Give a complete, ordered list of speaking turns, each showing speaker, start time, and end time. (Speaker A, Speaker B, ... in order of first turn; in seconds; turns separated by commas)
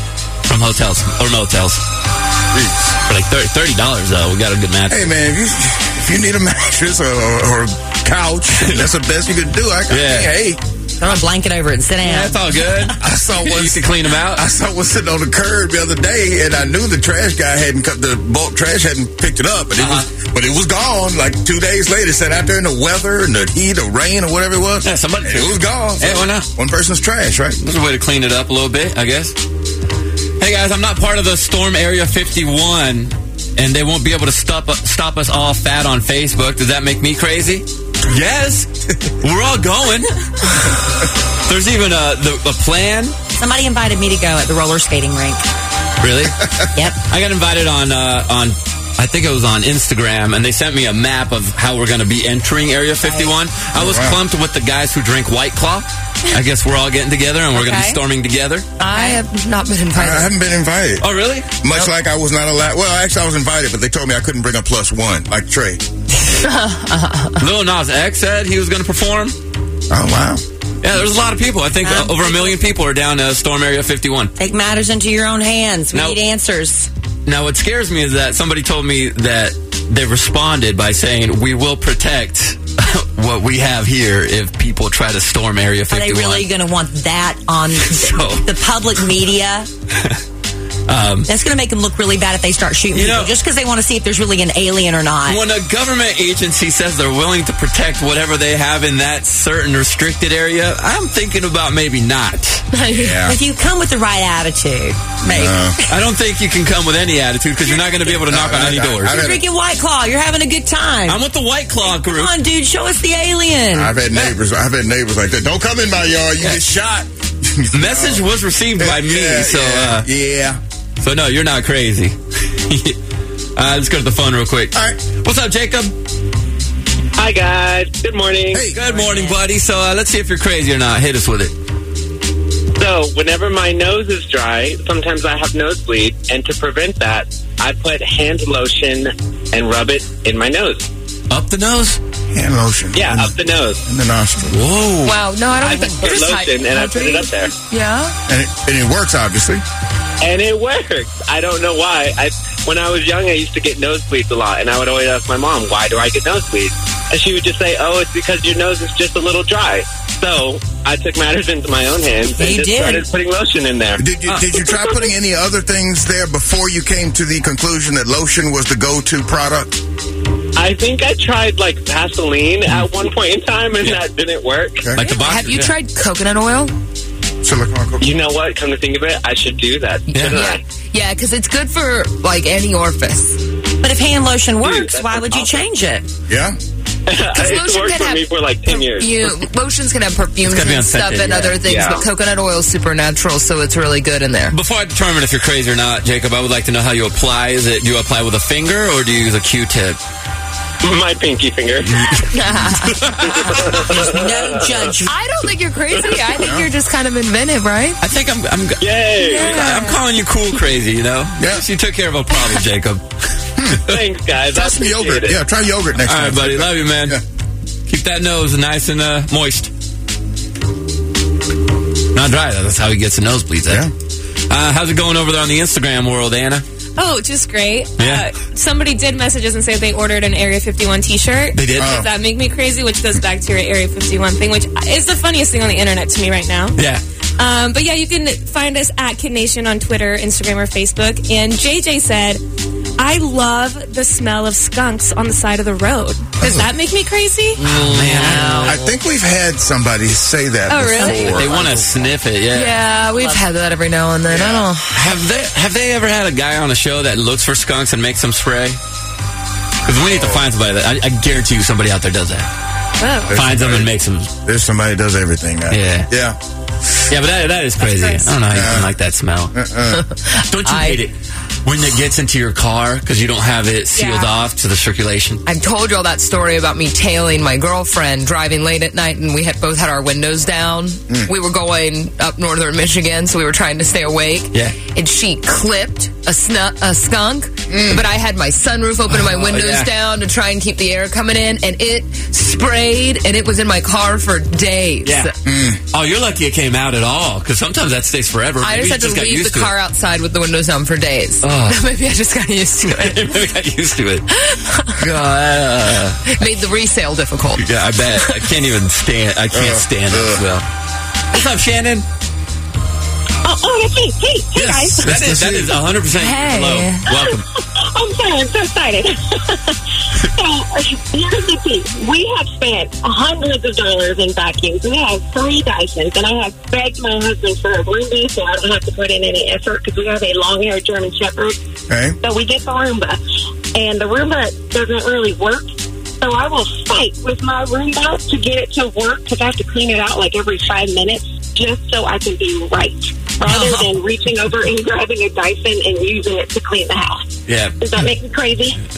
Speaker A: 0.4-1.8, Speaker B: 2.5-2.9, Speaker A: 3.1-5.1, Speaker B: 4.9-10.6, Speaker A: 9.9-10.3, Speaker C: 11.0-12.9, Speaker A: 12.0-14.4, Speaker B: 13.0-27.6, Speaker A: 19.8-20.1, Speaker A: 24.8-26.5, Speaker A: 27.6-29.3, Speaker A: 30.4-40.1, Speaker A: 41.5-43.1, Speaker C: 43.3-45.4, Speaker A: 46.0-46.5, Speaker A: 47.1-58.7, Speaker C: 53.0-53.3, Speaker B: 53.7-54.2, Speaker C: 57.5-58.0, Speaker D: 58.8-60.3, Speaker C: 58.9-59.2, Speaker B: 59.9-61.0, Speaker A: 61.0-61.5, Speaker B: 61.6-65.8, Speaker D: 66.3-67.4, Speaker A: 67.4-69.3, Speaker B: 69.9-70.4, Speaker A: 70.8-74.3, Speaker C: 71.8-72.7, Speaker C: 74.3-76.9, Speaker A: 75.9-76.2, Speaker A: 77.2-86.5, Speaker C: 85.9-89.7, Speaker A: 87.9-88.5, Speaker A: 90.9-91.3, Speaker C: 91.3-95.4, Speaker A: 92.9-93.3, Speaker A: 95.2-102.7, Speaker D: 102.7-103.1, Speaker B: 102.9-103.4, Speaker C: 103.2-105.9, Speaker B: 105.3-105.8, Speaker A: 105.9-109.3, Speaker B: 108.3-109.4, Speaker C: 109.0-111.2, Speaker A: 111.1-112.3, Speaker C: 111.8-114.0, Speaker B: 113.7-118.3, Speaker A: 117.7-120.1, Speaker B: 118.8-120.6, Speaker A: 121.0-123.0, Speaker A: 123.5-125.9, Speaker B: 124.7-125.0, Speaker E: 127.2-128.7, Speaker A: 128.7-131.5, Speaker C: 128.7-129.4, Speaker E: 132.8-140.9, Speaker A: 141.3-142.0, Speaker B: 142.3-144.6, Speaker E: 142.9-143.8, Speaker A: 144.5-145.2, Speaker D: 145.0-148.1, Speaker E: 145.6-147.5, Speaker B: 148.3-149.6, Speaker E: 150.2-164.0, Speaker C: 162.2-163.1, Speaker B: 164.0-169.8, Speaker E: 170.6-174.9, Speaker A: 174.9-175.7, Speaker D: 175.0-176.7, Speaker B: 177.4-178.2, Speaker E: 178.0-180.6, Speaker D: 180.1-183.4, Speaker A: 180.1-180.4, Speaker C: 183.8-186.1, Speaker E: 184.6-185.6, Speaker B: 186.3-186.6, Speaker E: 187.1-189.4, Speaker D: 187.3-194.6, Speaker A: 190.4-191.5, Speaker E: 191.6-192.1, Speaker A: 194.5-200.0, Speaker E: 200.8-202.2, Speaker A: 201.9-203.8, Speaker D: 202.3-203.1, Speaker C: 203.5-205.2, Speaker E: 203.5-204.7, Speaker D: 205.1-208.0, Speaker E: 205.9-206.3, Speaker B: 206.3-206.7, Speaker A: 208.0-213.0, Speaker E: 208.8-209.6, Speaker D: 209.1-210.0, Speaker B: 211.4-211.6, Speaker B: 213.6-213.9, Speaker E: 213.8-215.4, Speaker B: 214.5-217.2, Speaker A: 216.0-217.2, Speaker A: 217.9-219.7, Speaker A: 222.1-223.9, Speaker B: 223.7-223.9, Speaker A: 224.5-226.6, Speaker F: 227.0-236.8, Speaker A: 228.0-228.3, Speaker A: 231.5-232.0, Speaker B: 231.8-232.1, Speaker A: 236.8-237.0, Speaker F: 237.4-242.4, Speaker F: 243.0-247.6, Speaker B: 246.4-246.7, Speaker A: 247.7-248.8, Speaker D: 247.7-248.7, Speaker C: 247.8-248.8, Speaker B: 248.7-251.8, Speaker D: 250.7-251.6, Speaker F: 250.8-251.5, Speaker A: 251.0-252.8, Speaker D: 252.5-255.1, Speaker B: 254.3-254.7, Speaker A: 254.9-258.8, Speaker A: 259.8-262.5, Speaker B: 259.9-260.4, Speaker F: 263.0-263.4, Speaker B: 263.2-263.9, Speaker A: 263.3-264.3, Speaker B: 264.4-266.4, Speaker A: 265.7-266.1, Speaker A: 267.1-269.6, Speaker F: 267.9-268.3, Speaker B: 268.5-268.9, Speaker B: 269.5-270.0, Speaker D: 269.9-271.0, Speaker A: 270.3-271.1, Speaker A: 271.6-275.4, Speaker F: 274.0-274.2, Speaker D: 275.4-295.3, Speaker A: 289.1-289.9, Speaker B: 295.4-295.8, Speaker A: 295.9-299.7, Speaker D: 298.6-303.4, Speaker A: 301.4-301.8, Speaker A: 302.8-304.3, Speaker D: 304.3-305.4, Speaker A: 305.0-306.3, Speaker D: 306.2-307.6, Speaker A: 307.6-310.6, Speaker B: 309.5-310.4, Speaker A: 311.3-312.1, Speaker G: 313.4-315.1, Speaker B: 314.5-315.8, Speaker A: 315.0-317.4, Speaker D: 316.1-317.0, Speaker G: 317.2-331.6, Speaker B: 331.9-332.2, Speaker G: 332.2-333.2, Speaker G: 333.7-348.8, Speaker C: 343.4-344.0, Speaker A: 347.5-347.8